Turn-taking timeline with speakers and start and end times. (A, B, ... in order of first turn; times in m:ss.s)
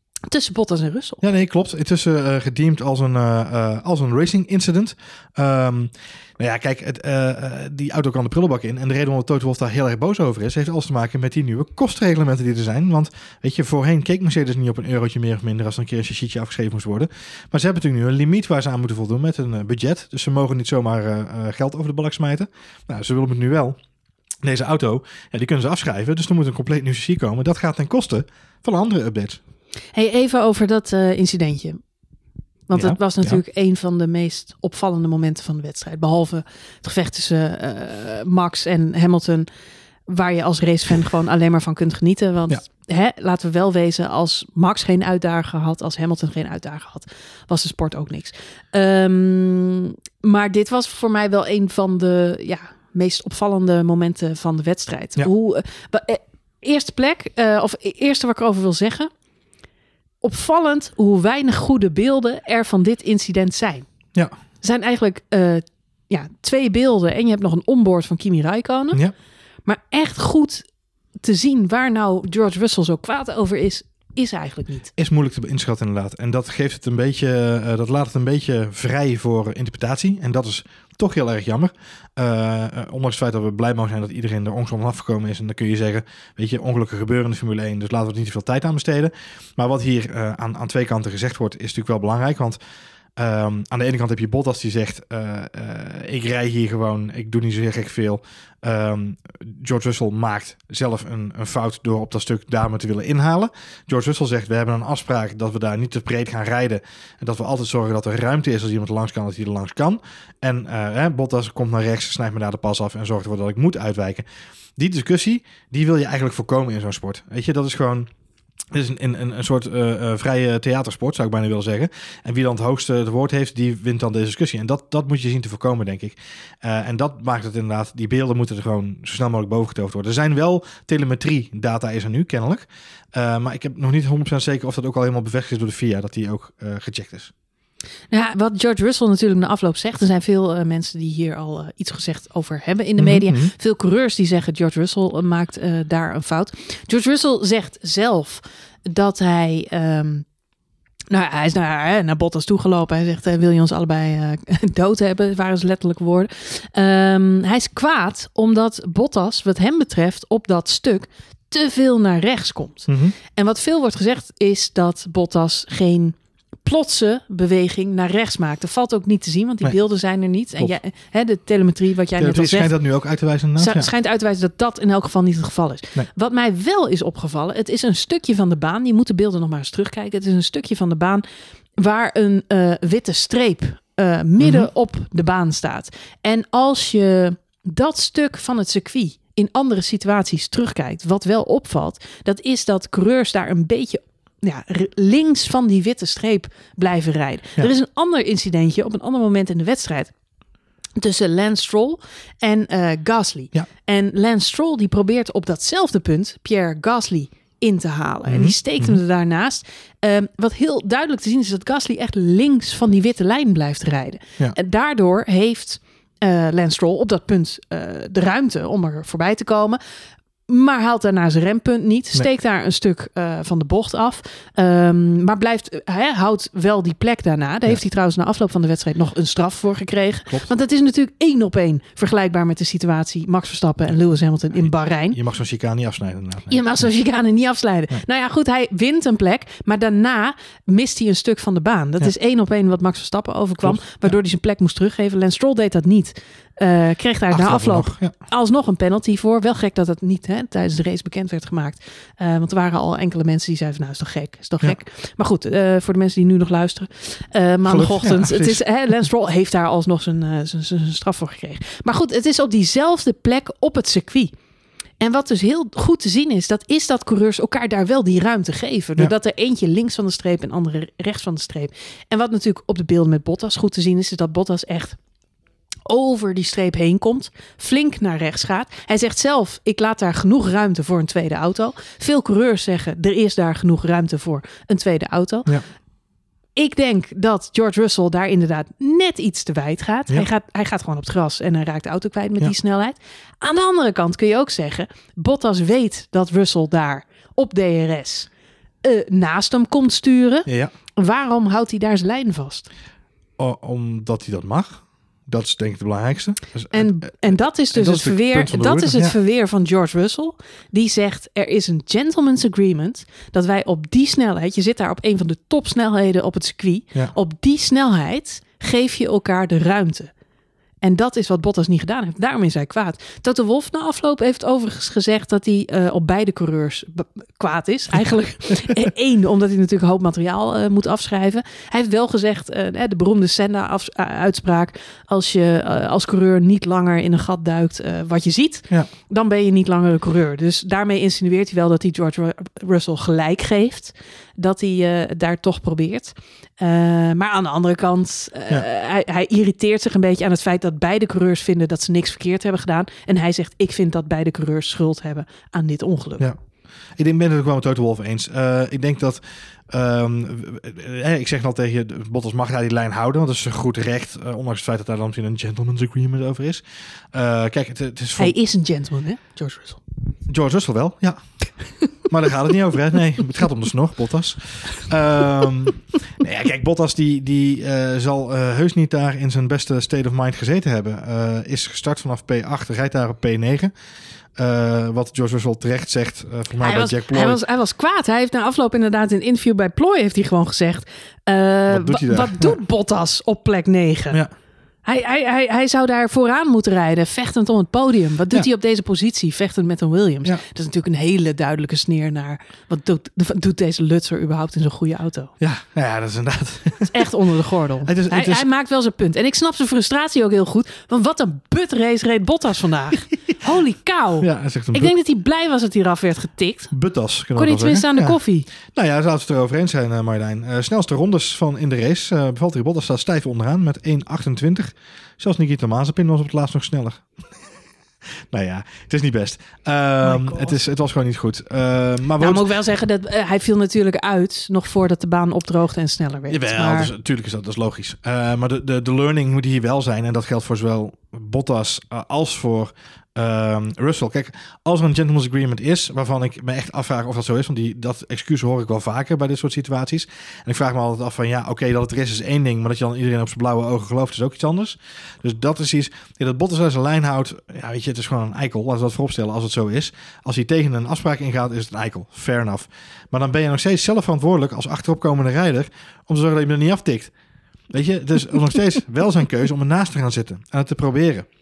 0:00.3-0:01.2 A
0:01.2-0:23.8 B
0:24.4-0:29.4 B
0:29.9-0:31.8 A
0:32.7-0:39.5 A
0:32.7-0:33.4 B
0:40.1-0:59.1 A
1:00.2-1:03.9 A
1:04.6-1:09.0 A
1:09.6-1:10.7 A
1:11.2-1:14.9 A
1:15.0-1:32.6 B
1:33.2-1:54.2 B
1:54.8-1:58.1 B
1:58.7-2:17.3 B
2:18.1-2:30.2 A
2:23.0-2:23.5 B
2:31.1-2:52.7 A
2:42.9-2:43.2 B
2:52.2-2:53.9 B
2:53.6-3:01.2 A
3:01.8-3:20.1 A
3:04.4-3:04.7 B
3:21.0-3:39.8 A
3:28.3-3:29.0 B
3:40.5-3:55.2 A
3:54.6-3:56.8 B
3:56.5-4:24.3 A
4:03.6-4:04.1 B
4:07.3-4:08.1 B
4:17.7-4:18.6 B
4:25.0-4:35.0 A
4:35.8-4:45.5 A
4:46.6-4:58.3 A
4:58.8-5:02.7 A
5:00.5-5:00.7 B
5:03.4-5:09.1 B
5:06.7-5:20.1 A
5:20.8-5:56.3 A
5:57.0-6:08.4 B
6:08.2-6:09.8 A
6:10.3-6:11.2 B
6:12.1-6:23.7 B
6:24.4-6:27.4 B
6:26.6-6:34.2 A
6:31.7-6:32.6 B
6:34.8-6:45.3 A
6:45.4-6:47.1 B
6:46.9-6:56.7 A
6:47.8-6:48.4 B
6:54.2-6:54.9 B
6:56.7-7:07.1 B
6:57.4-6:58.5 A
7:08.3-7:12.4 B
7:10.0-7:10.6 A
7:12.2-7:16.9 A
7:16.3-7:47.1 B
7:47.7-7:51.3 B